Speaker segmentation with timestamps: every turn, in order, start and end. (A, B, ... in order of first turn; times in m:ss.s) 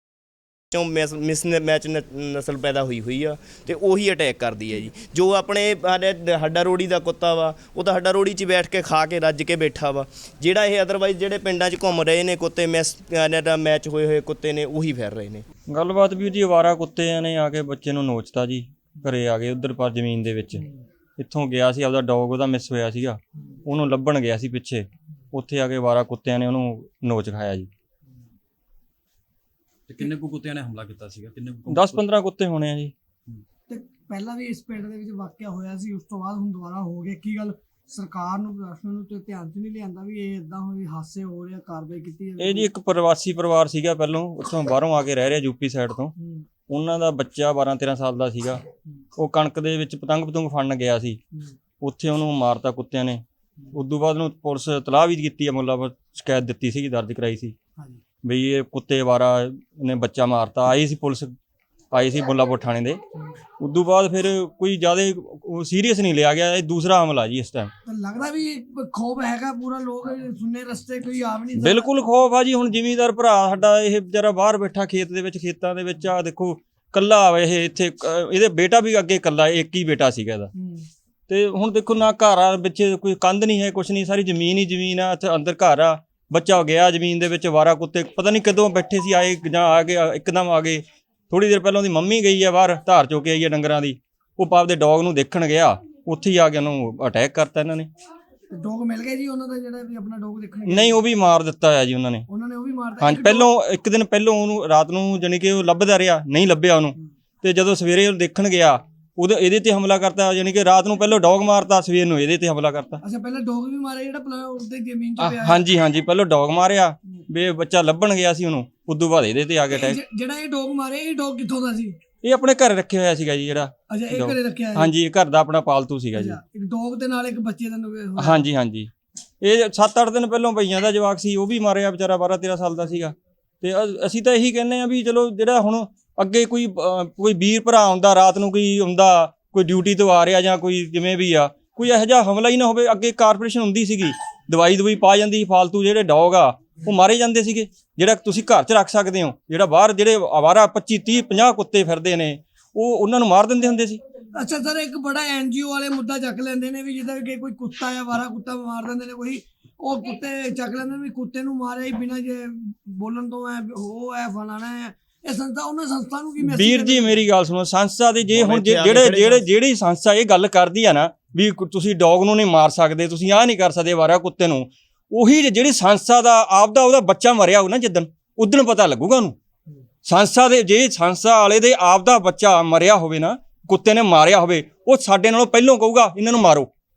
0:00.7-0:15.4 A
0:15.7-0:20.7 B
0:21.2-0:27.7 B
0:29.9-0:32.0 C
0:31.7-0:32.9 B
0:33.7-0:42.7 D
0:42.4-0:46.2 B
0:46.2-0:46.4 D
0:46.7-0:48.6 B
0:49.2-0:51.2 B
0:51.8-0:57.5 B
0:58.2-1:01.3 B
1:01.9-1:03.0 B
1:03.6-1:07.7 B
1:07.9-1:11.9 D
1:11.6-1:20.5 B
1:20.6-1:20.8 D
1:21.3-1:37.9 B
1:38.5-1:41.0 D
1:40.7-1:42.3 B
1:42.3-1:43.5 D
1:43.0-1:53.0 B
1:53.0-1:55.6 D
1:55.2-2:00.0 B
1:59.7-2:02.0 D
2:02.2-2:06.4 B
2:03.9-2:04.9 D
2:06.2-2:08.5 D
2:08.2-2:34.0 B
2:34.3-2:47.2 D
2:46.4-2:59.4 B
2:48.3-2:49.4 A
3:00.0-3:06.7 B